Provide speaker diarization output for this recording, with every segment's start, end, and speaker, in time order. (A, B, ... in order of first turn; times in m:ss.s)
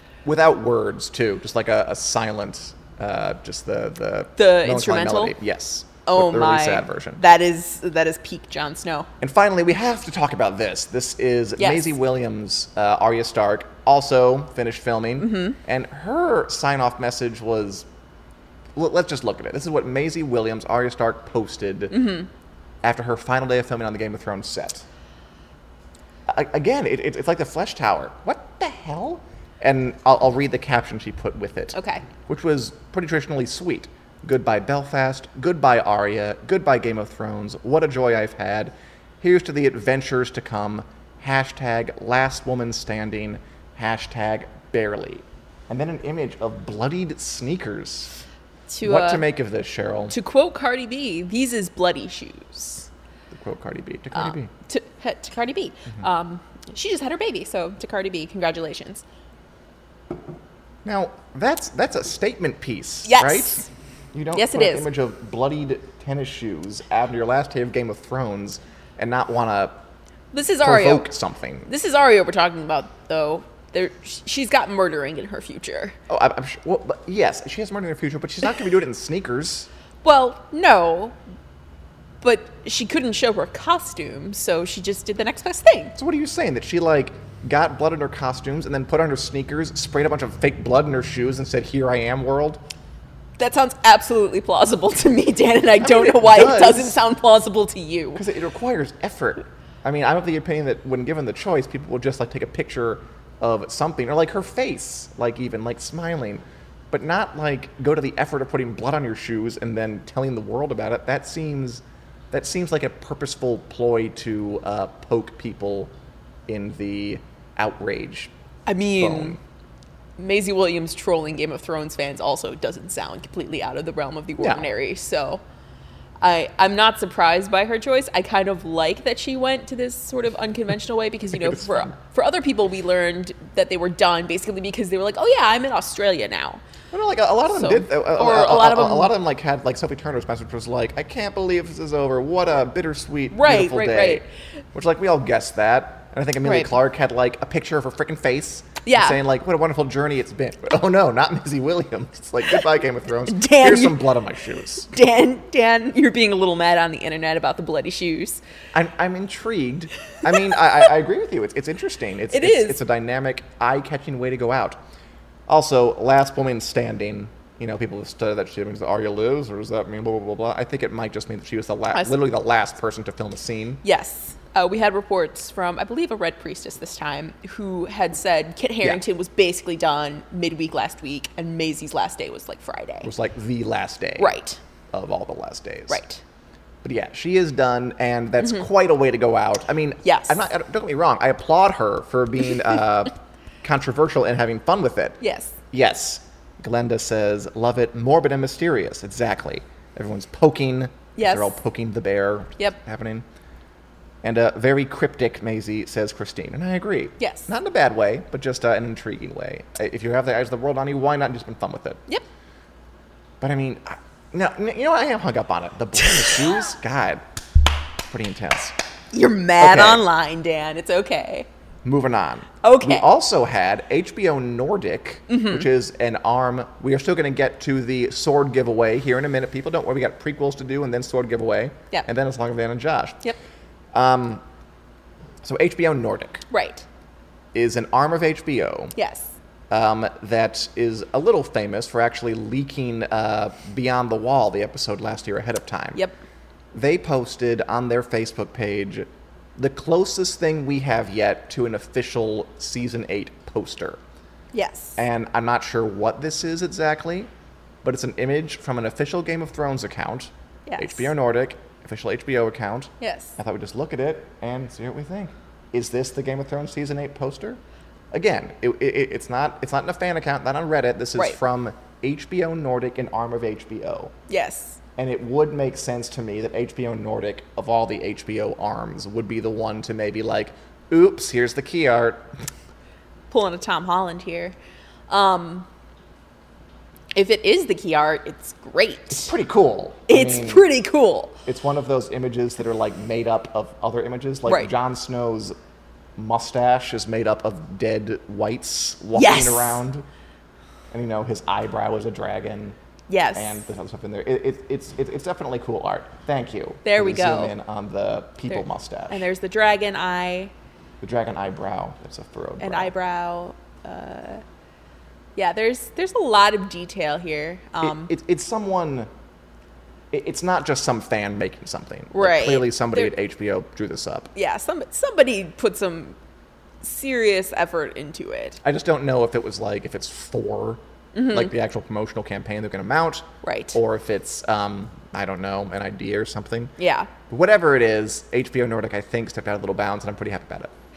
0:00.2-0:07.2 A
0:04.4-0:05.4 B
0:06.0-0:09.1 B
0:09.2-0:17.9 A
0:11.6-0:12.0 B
0:15.2-0:15.6 B
0:18.8-0:22.0 A
0:21.9-0:22.3 B
0:22.8-0:24.9 A
0:26.3-0:48.2 A
0:31.7-0:32.1 B
0:48.7-0:49.2 B
0:48.8-0:50.2 A
0:50.1-0:52.9 B
0:53.3-0:54.5 A
0:54.1-0:59.0 B
1:00.8-1:09.8 A
1:03.0-1:03.7 B
1:04.3-1:04.9 B
1:10.3-1:11.1 B
1:10.6-1:11.7 A
1:11.7-1:16.0 B
1:16.1-1:19.7 A
1:20.0-1:21.2 B
1:22.2-1:26.0 B
1:26.0-1:32.6 A
1:33.4-1:38.2 B
1:35.8-1:37.0 A
1:38.2-1:55.9 A
1:56.5-1:58.3 A
1:58.7-1:59.4 B
1:59.0-1:59.4 A
2:00.2-2:05.4 B
2:04.4-2:04.7 A
2:06.2-2:16.6 B
2:11.3-2:11.9 A
2:16.9-2:34.9 A
2:17.5-2:19.1 B
2:23.3-2:24.2 B
2:26.4-2:26.7 B
2:28.8-2:29.2 B
2:33.3-2:34.1 B
2:34.9-2:38.4 B
2:38.7-2:44.8 A
2:42.3-2:42.8 B
2:45.5-2:53.8 A
2:53.8-3:03.1 B
3:03.0-3:04.4 A
3:04.2-3:04.6 B
3:04.9-3:06.0 A
3:05.9-3:06.2 B
3:06.8-3:15.2 A
3:08.4-3:08.7 B
3:10.0-3:10.4 B
3:15.2-3:15.6 B
3:15.7-3:23.2 A
3:21.2-3:21.6 B
3:24.2-3:32.0 A
3:27.2-3:27.5 B
3:33.4-3:37.2 A
3:38.1-3:38.8 A
3:39.1-3:41.5 B
3:39.6-3:40.0 A
3:41.8-3:53.2 A
3:42.6-3:43.1 B
3:45.3-3:45.7 B
3:53.9-3:54.4 A
3:55.4-3:56.4 A
3:56.5-3:56.8 B
3:57.5-3:58.9 A
3:59.0-3:59.3 B
3:59.7-4:06.0 A
4:06.7-4:14.0 A
4:14.5-4:15.0 B
4:15.0-4:17.3 A
4:17.8-4:27.6 A
4:20.7-4:21.1 B
4:23.0-4:23.4 B
4:28.1-4:34.1 A
4:34.3-4:34.8 B
4:35.0-4:42.3 A
4:43.3-4:44.6 B
4:45.1-4:45.7 B
4:47.1-4:49.3 B
4:49.1-4:50.7 A
4:50.1-4:51.4 B
4:51.5-4:55.6 A
4:56.2-5:00.1 A
4:59.1-4:59.8 B
5:00.9-5:02.8 A
5:03.1-5:03.6 B
5:03.4-5:09.2 A
5:06.8-5:07.5 B
5:08.5-5:10.5 B
5:11.0-5:12.9 A
5:12.6-5:14.4 B
5:15.4-5:18.1 B
5:17.8-5:19.1 A
5:20.1-5:24.3 A
5:22.1-5:23.1 B
5:24.4-5:26.2 B
5:26.8-5:28.6 B
5:28.6-5:36.7 A
5:31.2-5:31.5 B
5:33.4-5:33.8 B
5:36.8-5:37.1 B
5:37.3-5:40.7 A